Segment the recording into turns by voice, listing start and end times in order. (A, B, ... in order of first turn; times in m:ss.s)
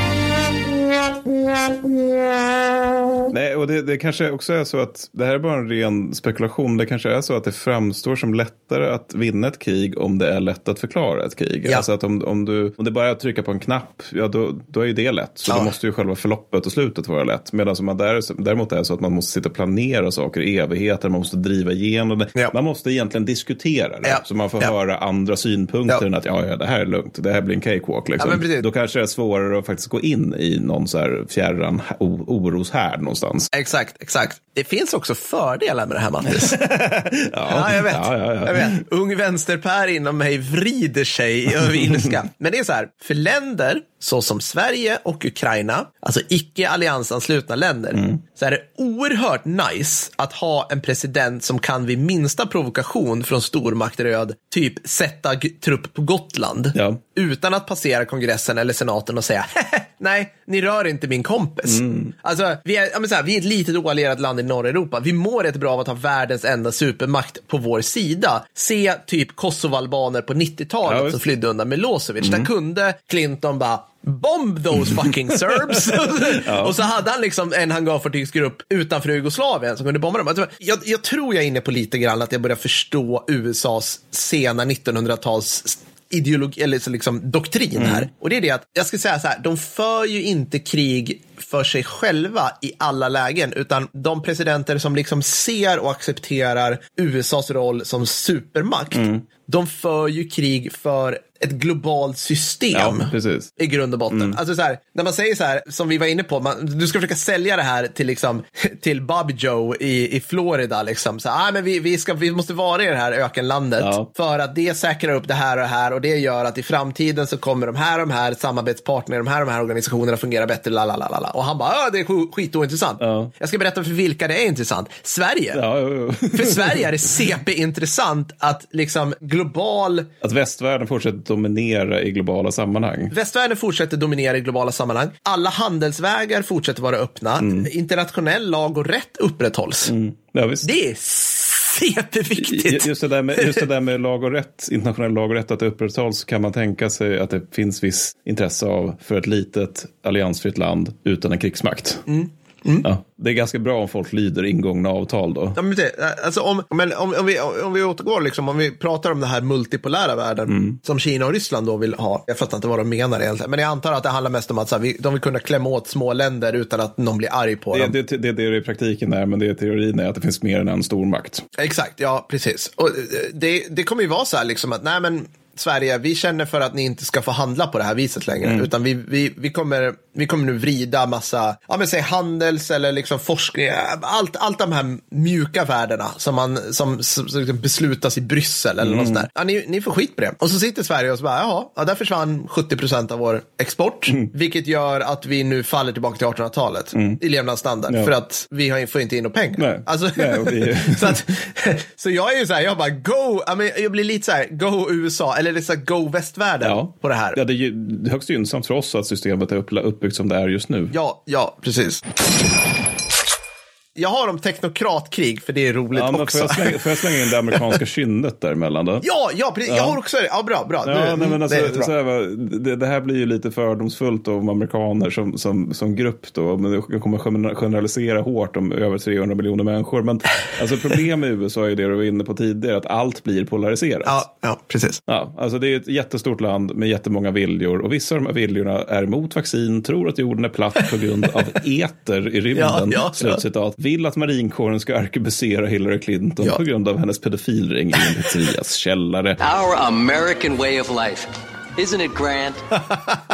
0:03.3-0:33.5 A
0:15.5-0:15.7 B
0:24.0-0:24.7 B
0:28.2-0:28.6 B
0:33.5-0:36.6 B
0:36.3-0:38.7 A
0:37.5-2:05.6 B
0:56.7-0:57.0 A
1:01.7-1:02.1 A
1:10.8-1:11.2 A
1:12.2-1:12.5 A
1:16.1-1:16.8 A
1:27.8-1:28.1 A
1:38.9-1:39.2 A
1:42.7-1:43.6 A
1:44.1-1:44.4 A
1:53.8-1:54.1 A
2:03.0-2:03.3 A
2:05.5-2:06.8 A
2:06.3-2:10.1 B
2:10.2-2:13.1 A
2:13.1-2:19.9 B
2:17.4-2:17.7 A
2:19.9-2:20.7 A
2:20.6-2:23.6 B
2:22.4-2:32.0 A
2:32.1-2:32.9 B
2:32.8-2:35.6 A
2:35.5-2:47.9 B
2:40.5-2:40.8 A
2:47.7-2:51.4 A
2:51.6-3:27.4 B
3:08.8-3:09.2 A
3:16.9-3:17.2 A
3:19.6-3:21.2 A
3:26.6-3:30.9 A
3:30.9-3:32.0 B
3:34.0-3:36.8 B
3:35.9-3:39.0 A
3:39.0-3:41.9 B
3:39.7-3:40.0 A
3:40.8-3:54.2 A
3:54.0-3:55.0 B
3:55.1-4:09.4 A
4:02.5-4:03.4 B
4:09.4-4:12.6 C